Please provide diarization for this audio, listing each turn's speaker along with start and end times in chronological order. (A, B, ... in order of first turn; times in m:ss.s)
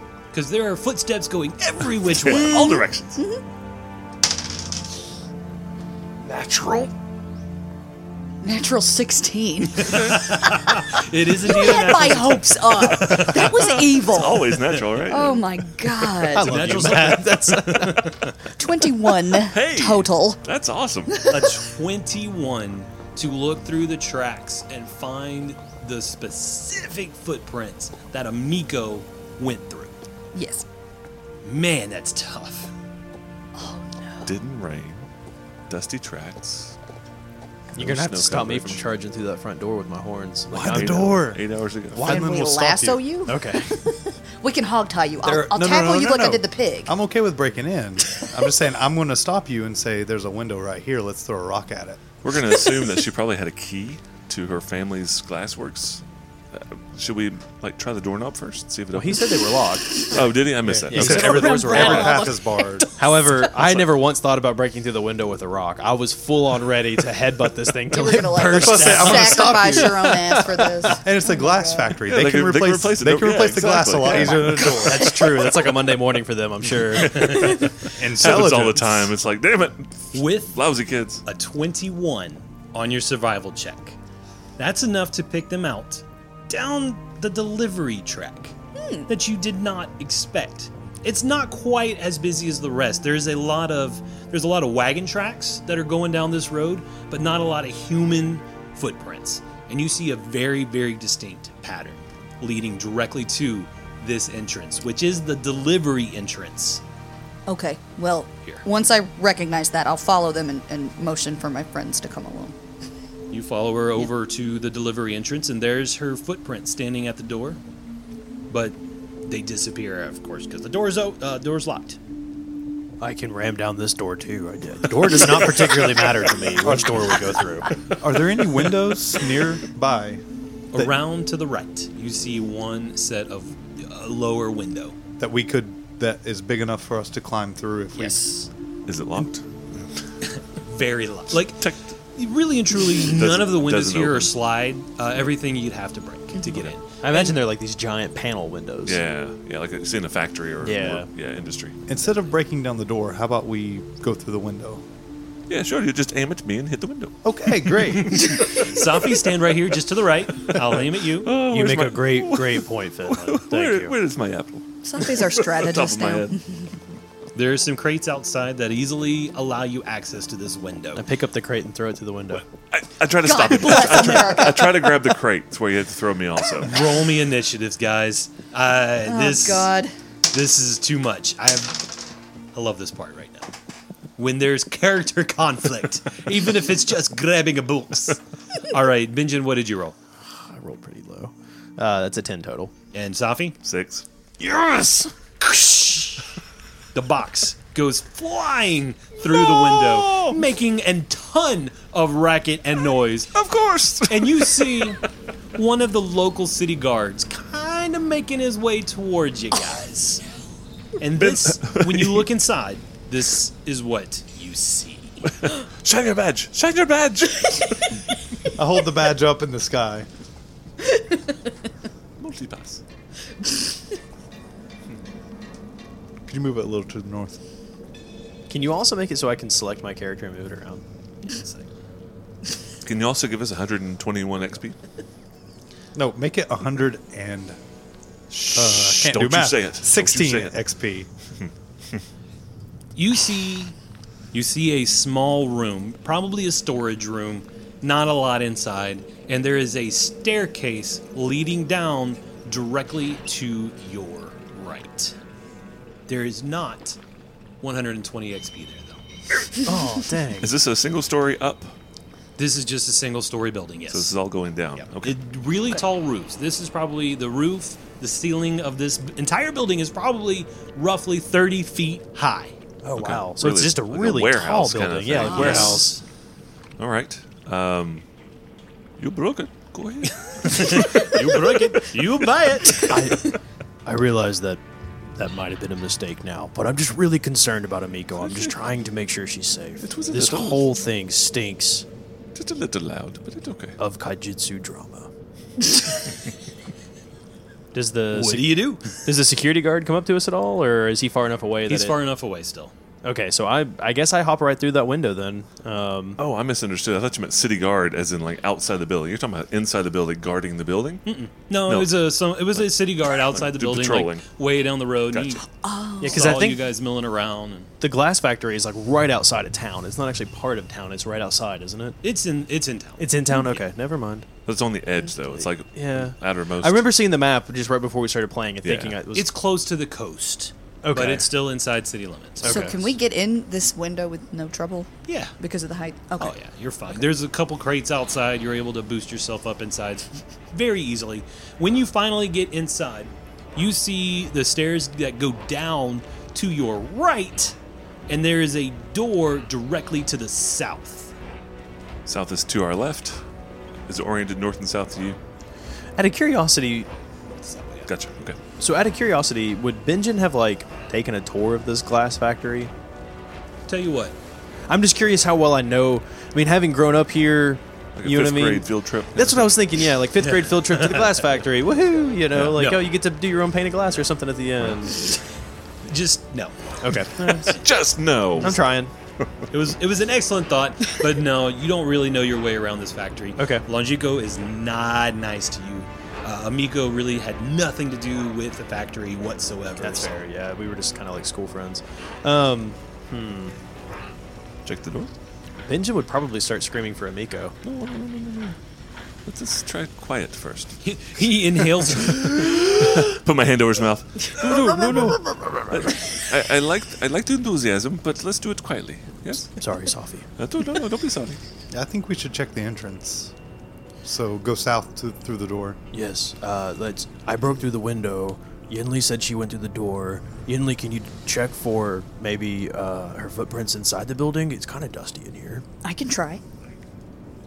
0:00.3-0:02.6 A
0:02.2-0:03.2 B
0:02.3-0:03.4 C
0:06.2-0:06.9 B
0:08.4-0:16.9 C
0:09.8-0:10.3 B
0:09.9-0:13.8 A
0:13.2-0:16.2 B
0:14.9-0:15.4 A
0:16.3-0:18.3 A
0:16.3-0:18.3 D
0:18.6-0:20.4 C
0:19.3-0:21.3 B
0:21.1-0:21.5 C
0:21.3-0:30.0 A
0:30.3-0:30.6 C
0:31.4-0:32.7 A
0:33.6-0:34.4 C
0:34.2-0:35.1 B
0:35.7-0:36.8 B
0:37.8-0:38.8 B
0:37.8-0:41.2 D
0:40.5-0:43.0 E
0:40.7-0:42.2 B
0:42.0-0:46.9 C
0:43.3-0:43.8 D
0:45.2-0:52.0 E
0:52.2-1:01.8 B
0:58.9-0:59.9 D
1:00.6-1:02.3 D
1:00.8-1:02.9 E
1:01.1-1:02.9 C
1:03.0-1:11.0 D
1:07.9-1:12.0 C
1:08.5-1:10.2 E
1:10.9-1:15.2 E
1:12.0-1:14.6 B
1:14.1-1:15.4 C
1:14.2-1:17.7 D
1:16.9-1:21.2 B
1:18.0-1:19.1 E
1:20.1-1:20.6 A
1:21.3-1:24.0 A
1:24.6-1:28.5 A
1:29.1-1:46.8 A
1:47.5-1:52.6 C
1:53.3-1:57.6 A
1:58.5-2:02.0 A
2:03.0-2:07.7 D
2:06.6-2:07.0 E
2:08.0-2:10.2 E
2:10.7-2:15.0 A
2:15.2-2:18.2 E
2:18.0-2:18.5 A
2:18.9-2:19.9 B
2:20.2-2:27.4 A
2:21.3-2:21.9 B
2:22.9-2:24.3 B
2:27.0-2:29.0 D
2:28.9-2:31.8 B
2:30.6-2:31.1 D
2:31.9-2:34.8 E
2:35.5-2:37.2 B
2:37.2-2:38.3 E
2:37.7-2:38.9 B
2:38.0-2:41.3 A
2:40.5-2:46.4 B
2:41.5-2:44.0 D
2:44.8-2:46.7 C
2:47.4-2:51.0 A
2:51.0-2:52.5 D
2:52.4-2:56.8 B
2:53.2-2:55.0 C
2:56.6-2:59.7 A
2:59.0-2:59.9 C
3:00.3-3:01.8 A
3:02.5-3:03.5 A
3:04.2-3:10.0 A
3:10.4-3:12.7 D
3:12.9-3:13.6 A
3:13.6-3:14.1 B
3:14.4-3:15.1 D
3:15.4-3:16.3 A
3:16.9-3:23.3 A
3:19.3-3:20.4 B
3:23.3-3:25.0 B
3:24.1-3:25.0 A
3:25.6-3:30.2 A
3:31.0-3:35.2 A
3:31.2-3:32.2 B
3:35.2-3:38.0 B
3:38.6-3:40.1 E
3:42.2-3:42.8 B
3:46.3-3:47.4 E
3:48.5-3:50.8 D
3:51.2-3:51.7 A
3:52.8-3:54.8 B
3:56.0-3:57.6 E
3:58.3-4:00.6 B
3:58.5-4:01.1 E
4:01.4-4:02.0 B
4:03.0-4:03.8 A
4:04.3-4:15.2 A
4:16.1-4:17.0 A
4:17.6-4:19.0 A
4:19.6-4:20.5 D
4:20.4-4:21.8 B
4:22.4-4:24.2 A
4:23.9-4:25.2 B
4:24.8-4:32.5 A
4:32.8-4:36.0 D
4:33.0-4:35.9 B
4:35.2-4:36.0 A
4:35.2-4:35.8 C
4:36.8-4:38.1 B
4:39.0-4:41.1 B
4:40.1-4:43.1 A
4:42.8-4:44.6 D
4:45.2-4:51.8 D
4:48.2-4:48.5 B
4:49.8-4:50.7 B
4:52.4-4:53.8 B
4:53.8-4:55.1 D
4:57.7-5:02.0 D
4:58.1-4:59.0 A
5:01.7-5:02.7 A
5:03.0-5:06.2 D
5:06.2-5:11.0 B
5:11.1-5:15.4 A
5:13.2-5:14.2 B
5:15.1-5:15.4 B
5:15.5-5:16.6 C
5:16.0-5:16.6 D
5:16.0-5:17.7 A
5:17.8-5:22.0 D
5:22.0-5:23.0 A
5:23.0-5:24.3 D
5:24.5-5:26.9 B
5:25.4-5:29.3 D
5:28.6-5:29.0 B
5:29.1-5:32.7 A
5:30.8-5:31.3 D
5:32.4-5:32.8 D
5:32.4-5:36.4 C
5:35.1-5:35.4 A
5:36.2-5:47.6 A
5:48.1-5:51.1 A
5:52.1-5:53.2 B
5:53.9-5:55.2 B
5:56.0-5:56.9 D
5:57.4-5:57.9 A
5:57.9-5:58.4 B
5:58.6-6:02.7 D
6:03.7-6:04.2 A
6:04.7-6:15.1 D
6:08.0-6:09.7 B
6:10.4-6:11.1 A
6:12.5-6:12.8 A
6:15.8-6:17.6 A
6:16.8-6:17.6 D
6:17.5-6:18.6 B
6:18.4-6:18.9 D
6:19.2-6:19.5 B
6:19.5-6:30.2 A
6:23.4-6:23.6 D
6:29.8-6:33.6 D
6:34.6-6:35.1 B
6:35.7-6:37.6 D
6:37.6-6:38.6 B
6:39.2-6:40.8 B
6:40.8-6:42.6 A
6:41.9-6:49.6 B
6:44.4-6:45.2 D
6:49.5-6:50.3 D
6:50.4-6:51.4 B
6:51.7-6:53.3 E
6:54.0-6:55.8 E
6:55.9-7:05.6 D
7:05.8-7:06.4 C